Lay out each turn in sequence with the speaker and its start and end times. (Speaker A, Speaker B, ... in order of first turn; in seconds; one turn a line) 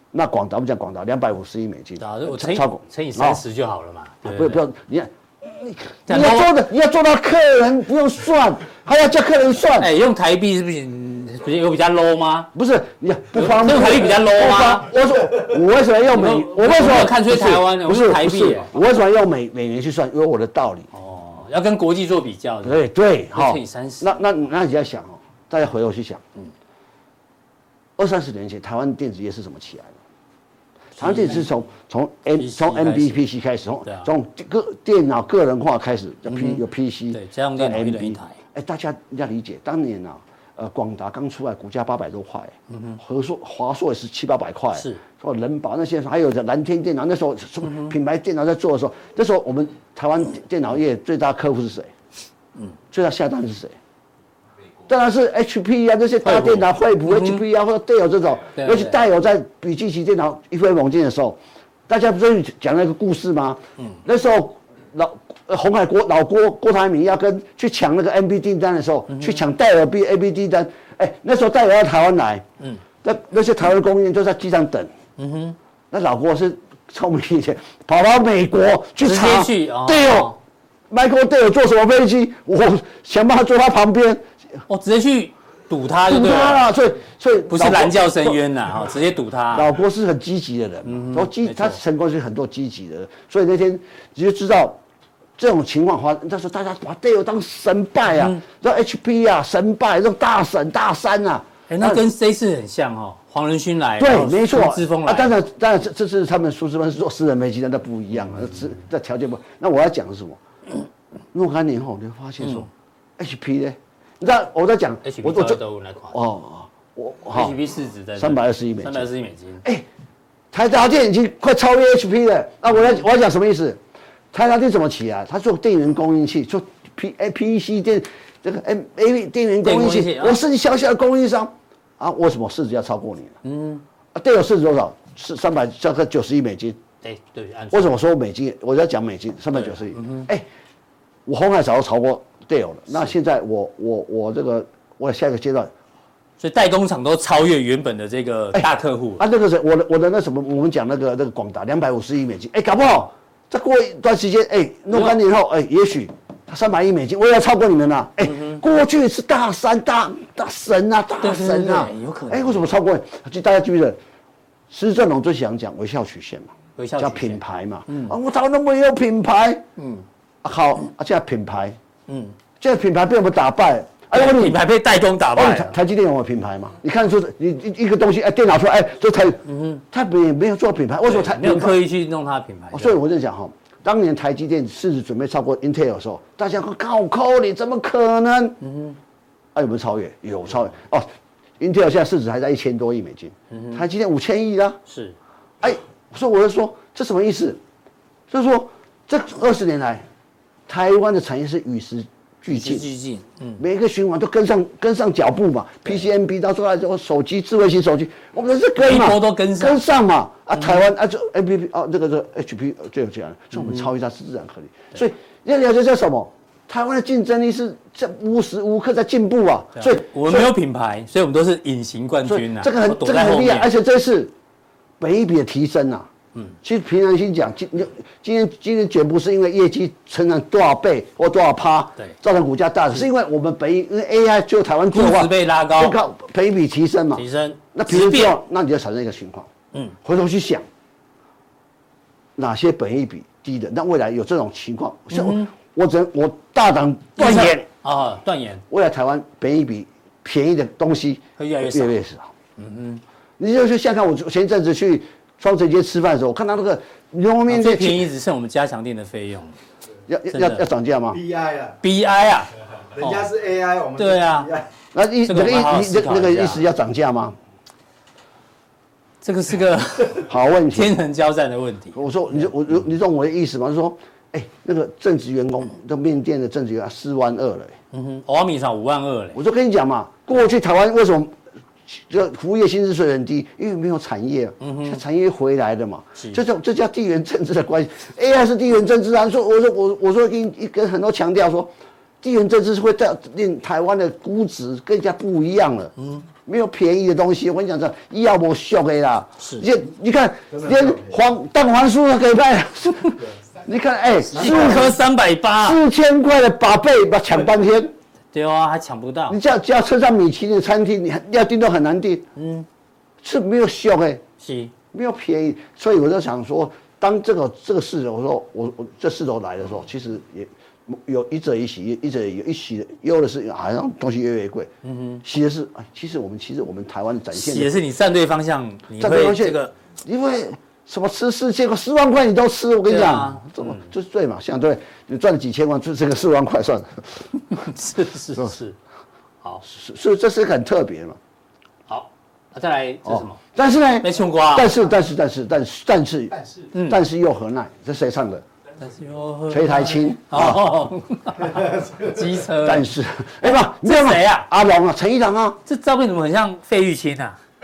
Speaker A: 0.1-3.4
Speaker B: 2.0-4.6
Speaker A: 4.2-9.9
Speaker B: 6.1-6.5
Speaker B: 9.8-12.5
Speaker A: 12.6-20.9
Speaker B: 13.3-14.9
Speaker B: 16.1-18.7
Speaker B: 20.9-22.8
Speaker A: 22.6-26.2
Speaker B: 23.3-24.1
Speaker A: 28.0-30.0
Speaker B: 31.0-31.5
Speaker A: 31.0-51.9
Speaker B: 32.4-33.2
Speaker B: 33.9-34.1
Speaker B: 36.3-38.4
Speaker B: 42.7-43.0
Speaker B: 44.8-45.0
Speaker A: 52.9-53.8
Speaker A: 54.9-72.5
Speaker B: 56.2-57.4
Speaker B: 58.6-59.0
Speaker B: 69.1-69.4
Speaker A: 73.0-74.9
Speaker B: 75.2-75.6
Speaker A: 75.9-80.3
Speaker B: 79.0-80.4
Speaker A: 80.9-84.3
Speaker B: 84.7-86.7
Speaker A: 86.0-88.4
Speaker B: 87.5-89.7
Speaker A: 89.5-94.8
Speaker B: 90.9-91.8
Speaker A: 95.4-102.0
Speaker B: 101.7-105.3
Speaker A: 104.0-110.4
Speaker A: 111.3-115.6
Speaker B: 112.4-112.7
Speaker B: 115.0-116.2
Speaker A: 116.1-117.6
Speaker B: 117.3-119.6
Speaker A: 118.2-119.1
Speaker A: 120.5-123.8
Speaker A: 124.3-133.4
Speaker B: 129.6-130.4
Speaker B: 133.4-133.8
Speaker A: 134.2-136.8
Speaker B: 137.0-137.9
Speaker A: 137.7-140.5
Speaker B: 139.6-140.3
Speaker A: 141.3-145.7
Speaker B: 146.4-149.2
Speaker A: 148.5-164.0
Speaker B: 158.2-158.6
Speaker B: 161.2-162.8
Speaker A: 164.7-169.6
Speaker B: 166.8-168.2
Speaker B: 169.8-170.1
Speaker A: 170.4-171.8
Speaker B: 172.1-172.4
Speaker A: 172.6-174.6
Speaker B: 174.1-175.8
Speaker A: 175.3-181.8
Speaker B: 179.5-179.8
Speaker B: 181.1-183.0
Speaker A: 182.7-188.6
Speaker B: 188.6-189.0
Speaker A: 189.6-191.1
Speaker A: 191.6-194.8
Speaker B: 193.5-193.8
Speaker B: 194.9-195.2
Speaker A: 195.6-197.6
Speaker A: 198.3-200.1
Speaker A: 200.7-202.9
Speaker B: 202.5-203.6
Speaker A: 203.6-220.5
Speaker B: 208.8-209.8
Speaker B: 213.6-213.9
Speaker B: 219.8-223.7
Speaker A: 222.2-224.3
Speaker A: 225.0-226.1
Speaker A: 226.6-239.5
Speaker B: 234.9-236.0
Speaker B: 237.2-238.3
Speaker A: 240.0-240.7
Speaker A: 242.4-247.7
Speaker B: 245.1-245.5
Speaker B: 247.2-248.6
Speaker A: 248.7-252.3
Speaker B: 251.4-252.0
Speaker B: 252.6-253.0
Speaker A: 253.4-258.1
Speaker B: 257.5-259.6
Speaker A: 260.1-261.2
Speaker B: 260.3-260.6
Speaker C: 261.2-261.8
Speaker B: 261.8-263.4
Speaker C: 263.0-264.7
Speaker B: 264.0-264.5
Speaker A: 264.9-267.4
Speaker B: 265.3-266.6
Speaker B: 269.2-272.0
Speaker A: 270.2-270.9
Speaker A: 271.9-277.8
Speaker B: 277.9-279.4
Speaker A: 279.4-295.9
Speaker B: 284.6-285.0
Speaker B: 296.0-296.2
Speaker A: 296.5-305.0
Speaker B: 299.4-299.7
Speaker B: 304.3-305.8
Speaker A: 305.6-307.9
Speaker B: 308.3-309.4
Speaker A: 309.3-312.3
Speaker B: 312.4-312.7
Speaker A: 313.2-314.2
Speaker B: 314.4-314.7
Speaker A: 314.9-324.7
Speaker B: 324.8-325.2
Speaker A: 325.2-327.7
Speaker B: 327.3-329.7
Speaker A: 329.0-337.3
Speaker B: 332.9-333.9
Speaker B: 337.5-338.8
Speaker A: 339.6-341.2
Speaker B: 341.9-343.4
Speaker A: 343.1-348.4
Speaker B: 344.0-344.7
Speaker B: 346.7-347.0
Speaker B: 348.8-352.9
Speaker A: 349.5-350.6
Speaker A: 352.6-355.6
Speaker B: 353.4-354.5
Speaker B: 355.7-357.4